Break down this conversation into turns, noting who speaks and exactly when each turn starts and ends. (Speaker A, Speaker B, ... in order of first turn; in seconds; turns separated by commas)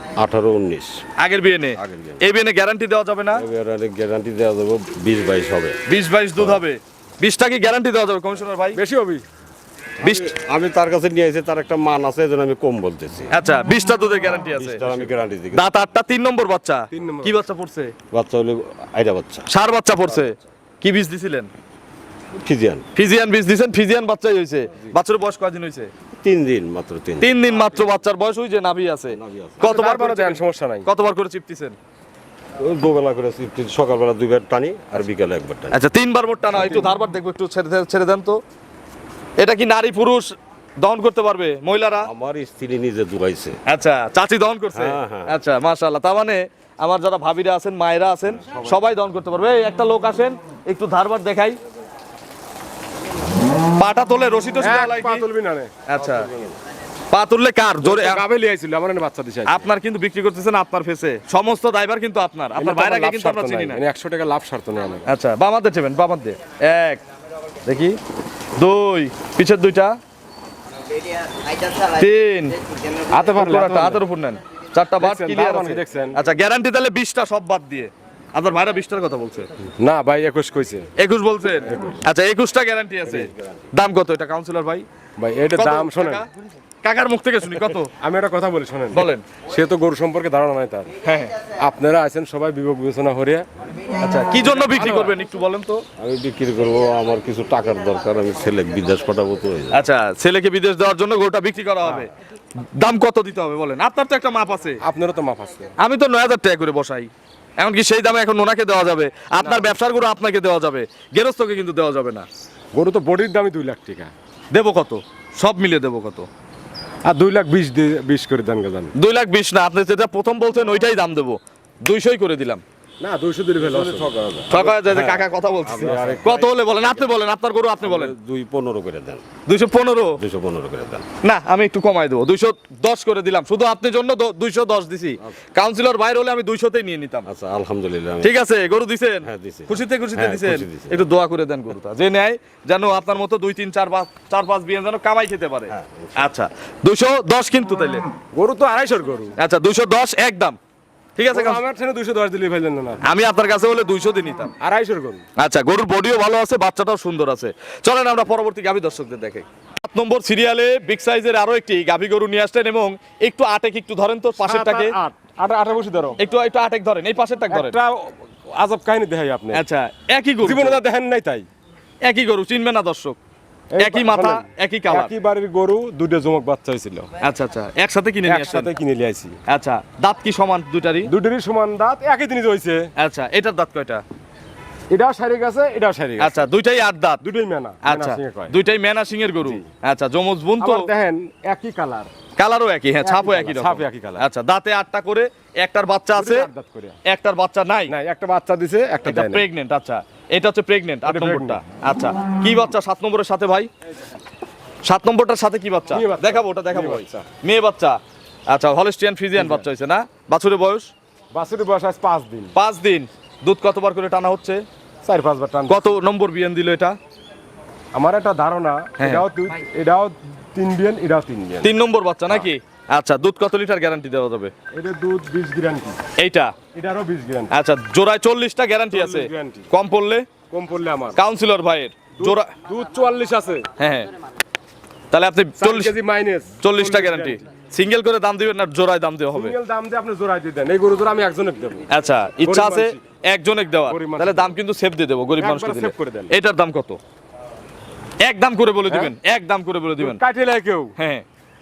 Speaker A: 0.2-1.0, Speaker B: 1.2-3.4, Speaker A: 1.8-2.2, Speaker A: 3.3-5.8, Speaker B: 5.9-8.8, Speaker A: 6.4-6.6, Speaker C: 8.7-9.2, Speaker A: 10.0-13.3, Speaker B: 10.0-10.3, Speaker B: 13.3-15.0, Speaker A: 14.6-15.7, Speaker B: 15.5-17.9, Speaker C: 16.9-17.4, Speaker A: 18.1-19.5, Speaker B: 19.5-21.5, Speaker A: 22.3-22.9, Speaker B: 22.9-25.9, Speaker A: 26.2-27.3, Speaker B: 27.2-31.8, Speaker A: 29.1-29.6, Speaker C: 29.6-30.9, Speaker A: 32.6-35.8, Speaker B: 35.7-38.4, Speaker B: 39.4-42.1, Speaker A: 42.0-43.6, Speaker B: 43.7-51.6, Speaker A: 44.7-45.4, Speaker A: 48.4-48.8, Speaker B: 53.8-55.2, Speaker C: 54.6-55.7, Speaker B: 55.9-56.3, Speaker A: 55.9-56.5, Speaker B: 57.1-58.2, Speaker C: 57.8-59.7, Speaker B: 59.5-63.8, Speaker C: 62.6-65.1, Speaker B: 65.0-67.0, Speaker B: 67.6-68.0, Speaker B: 68.6-70.0, Speaker B: 71.8-72.6, Speaker C: 73.1-74.0, Speaker B: 73.4-79.5, Speaker C: 75.0-76.2, Speaker C: 79.8-80.9, Speaker B: 81.0-84.8, Speaker C: 81.6-82.0, Speaker A: 83.3-83.6, Speaker C: 85.2-86.2, Speaker B: 85.5-86.3, Speaker B: 86.8-87.9, Speaker C: 88.0-90.9, Speaker B: 88.9-89.2, Speaker B: 91.0-91.3, Speaker C: 91.6-93.5, Speaker B: 94.0-95.8, Speaker C: 94.7-95.1, Speaker A: 96.0-99.8, Speaker B: 99.7-102.1, Speaker B: 102.8-104.8, Speaker C: 104.8-105.7, Speaker B: 105.8-112.2, Speaker C: 109.4-109.7, Speaker C: 112.7-114.1, Speaker B: 114.5-116.3, Speaker C: 117.0-118.9, Speaker B: 119.0-122.6, Speaker C: 123.0-125.1, Speaker A: 123.6-127.0, Speaker B: 124.5-128.1, Speaker C: 125.8-126.2, Speaker A: 127.8-129.2, Speaker B: 129.5-130.2, Speaker A: 130.2-131.1, Speaker B: 131.2-137.2, Speaker A: 137.2-138.3, Speaker B: 138.2-148.1, Speaker A: 139.2-141.1, Speaker A: 145.7-146.3, Speaker C: 148.3-149.3, Speaker B: 149.4-150.6, Speaker B: 151.2-151.6, Speaker C: 151.3-153.0, Speaker B: 153.0-154.5, Speaker C: 154.6-155.2, Speaker B: 155.4-164.9, Speaker C: 164.4-166.2, Speaker B: 166.2-167.7, Speaker C: 167.5-169.6, Speaker B: 169.5-170.8, Speaker C: 170.4-171.5, Speaker B: 172.0-173.2, Speaker C: 173.7-177.1, Speaker B: 173.8-175.1, Speaker B: 177.2-178.7, Speaker C: 178.2-179.4, Speaker B: 179.5-181.1, Speaker C: 181.1-182.9, Speaker B: 183.0-184.0, Speaker C: 184.9-186.5, Speaker B: 186.2-187.2, Speaker C: 187.2-188.6, Speaker B: 187.8-190.9, Speaker C: 190.6-192.1, Speaker B: 192.4-196.5, Speaker C: 193.0-194.2, Speaker C: 196.2-197.0, Speaker B: 197.1-197.9, Speaker C: 197.9-199.4, Speaker B: 199.1-203.7, Speaker C: 201.0-201.6, Speaker B: 204.8-210.9, Speaker C: 205.9-207.3, Speaker C: 209.4-209.6, Speaker C: 211.3-212.5, Speaker B: 212.6-214.6, Speaker C: 215.0-215.8, Speaker B: 215.7-217.0, Speaker C: 217.9-221.7, Speaker B: 221.6-224.5, Speaker C: 224.7-226.0, Speaker B: 226.2-226.5, Speaker C: 226.7-227.5, Speaker B: 227.5-230.3, Speaker C: 228.9-229.7, Speaker C: 230.5-231.2, Speaker B: 231.2-232.5, Speaker C: 232.2-233.7, Speaker B: 233.8-234.1, Speaker B: 235.1-235.9, Speaker C: 235.6-237.4, Speaker B: 236.6-239.5, Speaker C: 239.3-241.9, Speaker B: 241.9-247.0, Speaker C: 242.4-243.0, Speaker C: 243.9-244.5, Speaker C: 245.4-246.3, Speaker B: 248.2-250.2, Speaker C: 250.0-250.9, Speaker B: 251.0-251.2